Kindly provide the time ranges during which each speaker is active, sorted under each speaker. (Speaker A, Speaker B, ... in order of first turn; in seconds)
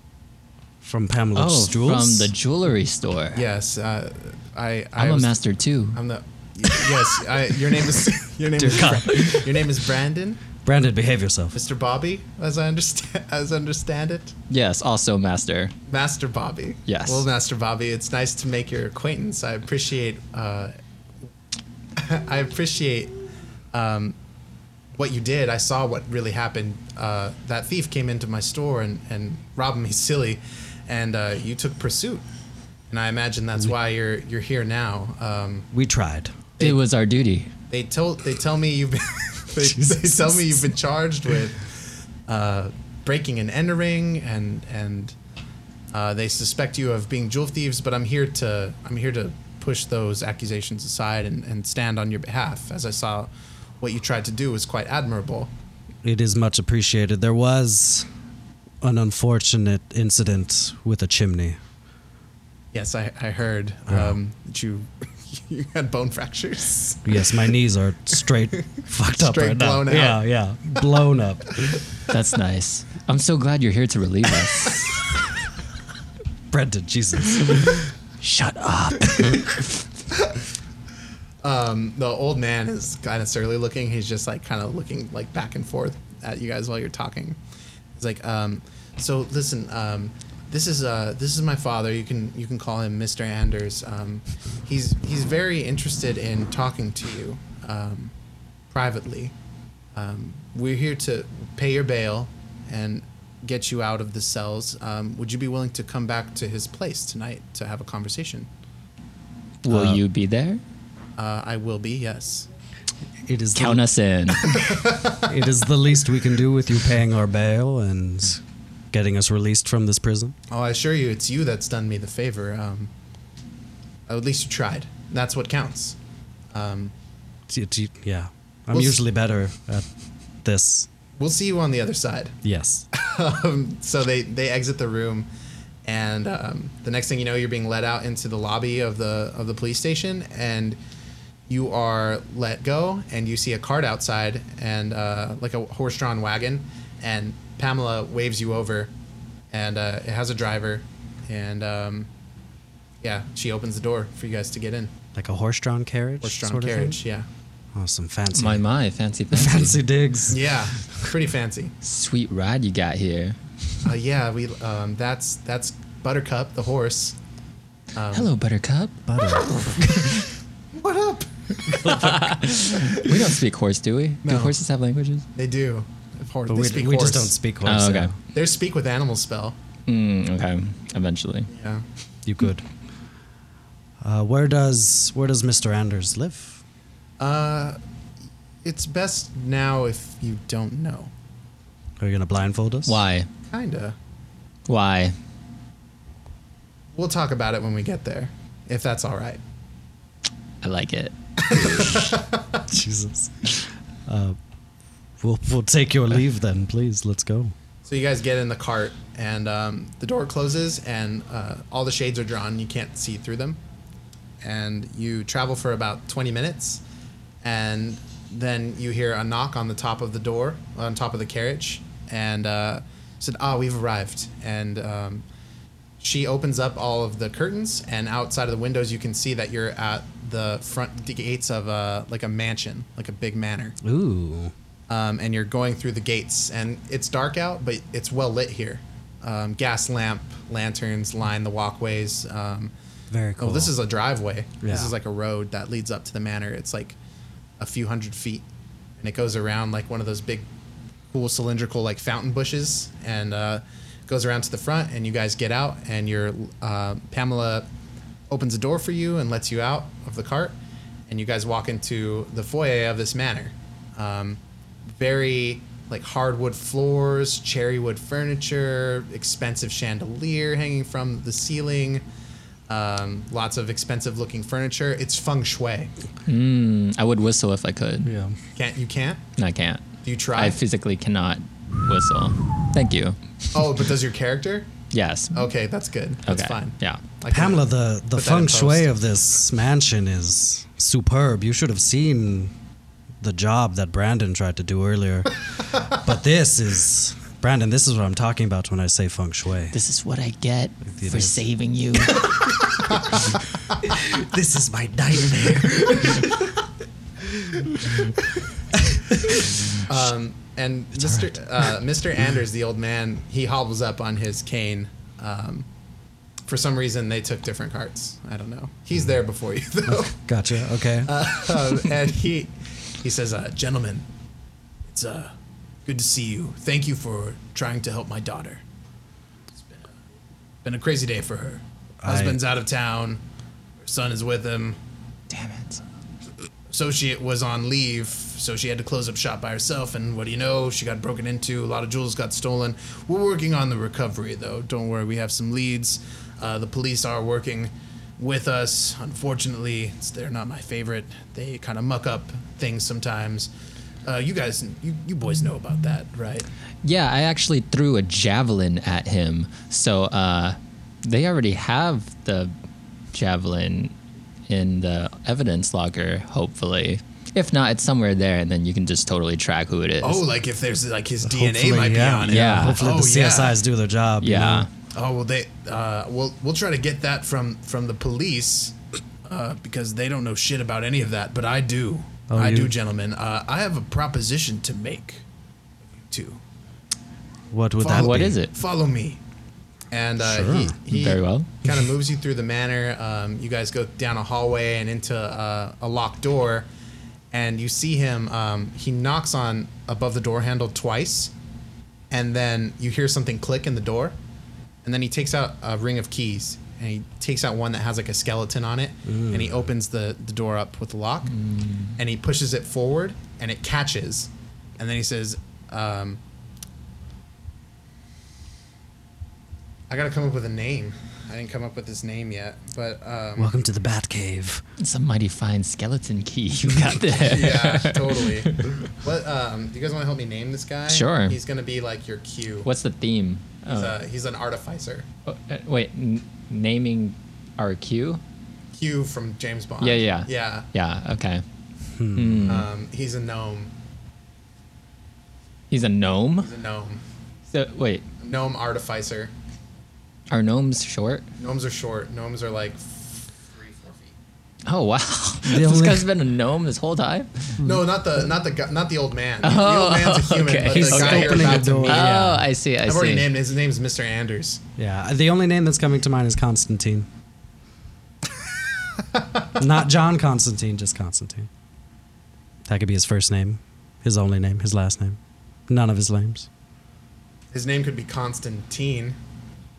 Speaker A: 0.8-2.3, 8.6-9.7, 10.6-11.6, 35.7-36.3, 39.6-40.6, 56.0-58.0, 58.8-61.6, 63.9-64.2, 67.0-71.8, 76.5-77.8, 109.7-110.0, 113.2-113.8, 115.2-120.3, 127.5-129.9, 130.4-130.9, 132.4-132.9, 155.1-157.0, 157.7-158.6, 159.3-161.1, 169.1-170.1, 176.5-178.2, 182.2-182.6, 184.0-186.6, 192.0-193.0, 202.7-204.4, 205.2-207.5, 233.8-234.5, 243.1-243.8, 244.6-244.9, 278.0-278.4, 287.3-292.5, 293.2-299.7, 300.9-301.4, 303.8-306.5, 307.3-308.0, 308.7-309.6, 319.9-321.2, 332.0-332.4, 371.2-374.7, 382.3-382.7, 387.5-388.4, 390.2-390.8, 409.1-409.6, 423.4-424.6, 441.9-442.7, 455.4-456.1, 457.6-457.8, 460.7-462.4, 464.8-467.1, 469.6-471.5, 472.7-476.5
Speaker B: 1.3-3.5, 5.0-6.0, 14.5-15.7, 16.9-17.2, 36.6-37.5, 72.1-75.1, 78.2-79.7, 109.6-110.6, 113.5-114.6, 158.3-159.8, 161.8-163.4, 168.1-170.2, 171.7-175.3, 177.6-178.1, 179.9-181.5, 192.8-193.3, 194.7-195.1, 200.6-202.0, 276.2-278.1, 279.4-279.8, 280.3-283.2, 284.9-285.5, 286.2-287.0, 299.7-302.5, 311.0-311.3, 335.3-335.8, 356.8-362.5, 363.1-363.9, 364.5-370.2, 372.2-372.8, 374.2-374.7, 387.9-388.5, 390.9-391.5, 411.3-411.9, 424.8-428.8, 430.9-431.4, 432.6-434.0, 435.2-438.2, 439.8-441.4, 442.1-442.7, 445.7-446.5, 447.5-448.0, 450.3-451.3, 454.7-457.6, 459.4-463.3
Speaker C: 3.3-5.3, 5.9-10.4, 11.5-14.3, 15.9-20.7, 21.9-23.1, 23.7-24.1, 24.9-32.2, 32.9-35.7, 37.7-41.7, 42.3-45.1, 45.9-53.3, 53.8-55.5, 62.7-67.1, 69.1-70.2, 81.4-87.4, 87.9-98.1, 98.7-99.3, 99.9-108.5, 111.2-112.5, 114.4-115.2, 120.5-122.9, 124.1-126.0, 126.5-126.9, 128.7-129.0, 131.2-132.3, 132.9-135.3, 135.8-140.8, 141.5-148.9, 149.5-152.1, 153.0-154.9, 156.2-157.3, 160.3-161.7, 163.8-167.2, 167.9-168.3, 170.7-173.1, 174.2-174.6, 175.3-177.3, 178.3-179.6, 181.5-181.8, 187.2-187.8, 188.6-191.1, 193.5-193.9, 196.9-199.4, 201.5-202.6, 207.8-213.6, 214.4-216.8, 217.4-225.2, 226.0-233.8, 234.9-242.7, 243.4-247.0, 247.6-248.4, 249.0-250.5, 251.1-257.6, 258.3-260.5, 261.1-272.0, 272.7-275.9, 278.6-279.2, 280.0-280.6, 283.5-284.7, 285.3-288.9, 309.9-315.6, 316.4-320.2, 321.0-324.1, 324.9-325.3, 325.8-328.6, 330.6-333.2, 333.8-334.8, 336.7-353.5, 354.0-356.5, 370.0-373.6, 374.9-378.7, 379.2-385.2, 386.0-386.4, 387.8-389.2, 389.9-396.7, 397.3-401.3, 402.1-404.1, 404.8-411.3, 412.0-416.2, 419.9-423.5, 427.2-432.7, 433.6-435.1, 438.7-440.6, 442.5-443.7, 446.4-447.0, 448.2-449.3, 451.4-454.1, 457.6-462.3, 462.8-464.6, 477.5-479.2